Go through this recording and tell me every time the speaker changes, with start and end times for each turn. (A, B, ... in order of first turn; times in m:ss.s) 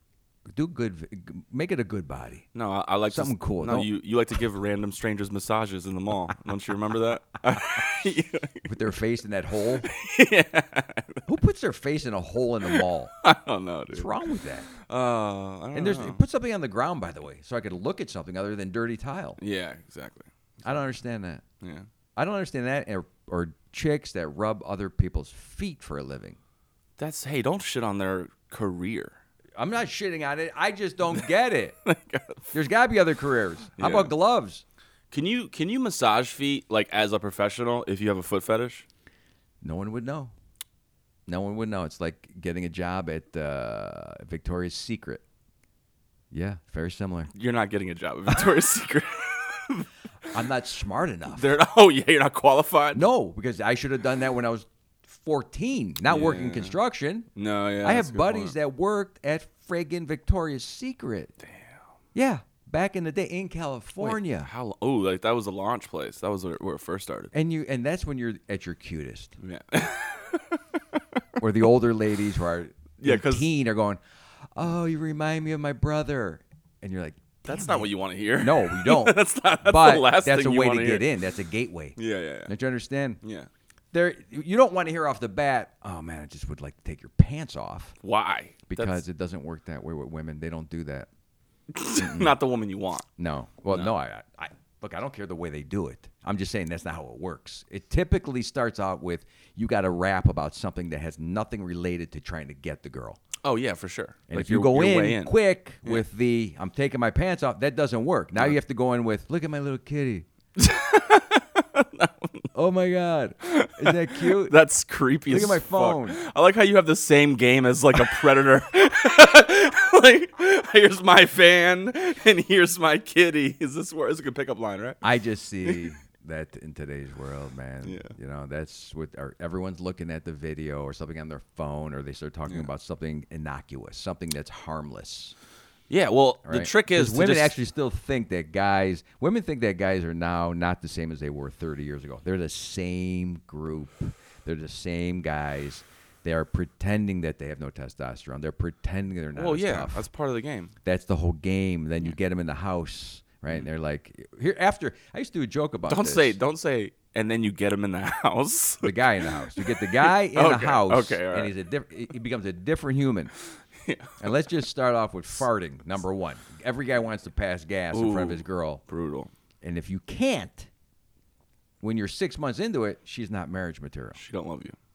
0:00.5-0:02.4 A
0:02.5-0:08.7 B
0:03.1-0:03.9 A
0:08.7-0:09.9 A
0:09.8-0:11.3 B
0:11.2-0:13.1 A
0:12.6-0:14.2 B
0:13.9-0:14.7 A
0:14.7-0:16.2 B
0:15.7-0:19.4 A
0:19.4-0:20.3 B
0:20.6-0:21.4 A
0:21.6-0:21.8 B
0:22.2-0:26.4 A
0:27.0-0:29.2 B
0:29.6-0:31.8 A
0:31.8-0:32.5 B
0:32.5-0:34.6 A
0:33.8-0:34.1 B
0:35.1-0:38.8 B
0:39.6-0:40.3 A
0:41.3-0:45.2 A
0:46.3-0:47.3 A
0:47.3-0:50.3 B
0:50.3-0:51.5 A
0:51.3-0:53.0 B
0:52.9-0:57.3 A
0:56.0-0:56.8 B
0:57.3-0:58.5 B
0:57.8-1:01.3 A
1:01.4-1:01.8 B
1:02.1-1:04.5 A
1:04.0-1:07.3 B
1:07.3-1:09.3 A
1:09.4-1:11.0 B
1:11.4-1:14.0 A
1:13.0-1:13.5 B
1:14.5-1:23.2 A
1:17.4-1:21.1 B
1:22.0-1:22.5 B
1:23.2-1:23.5 B
1:23.9-1:27.9 A
1:28.0-1:29.0 B
1:28.7-1:31.1 A
1:31.7-1:33.1 B
1:31.9-1:32.3 A
1:33.2-1:43.2 A
1:43.4-1:46.0 B
1:44.3-1:50.2 A
1:50.6-1:52.5 B
1:52.5-1:54.5 A
1:53.4-2:05.0 B
1:55.3-1:56.2 A
2:05.0-2:15.3 A
2:05.6-2:05.9 B
2:07.8-2:08.1 B
2:15.9-2:17.5 B
2:16.4-2:30.0 A
2:29.3-2:30.7 B
2:30.8-2:36.3 A
2:35.9-2:41.6 B
2:38.8-2:43.3 A
2:43.5-2:44.2 B
2:44.2-2:48.8 A
2:47.9-2:49.3 B
2:49.6-2:50.7 A
2:51.8-2:54.2 A
2:54.1-2:54.8 B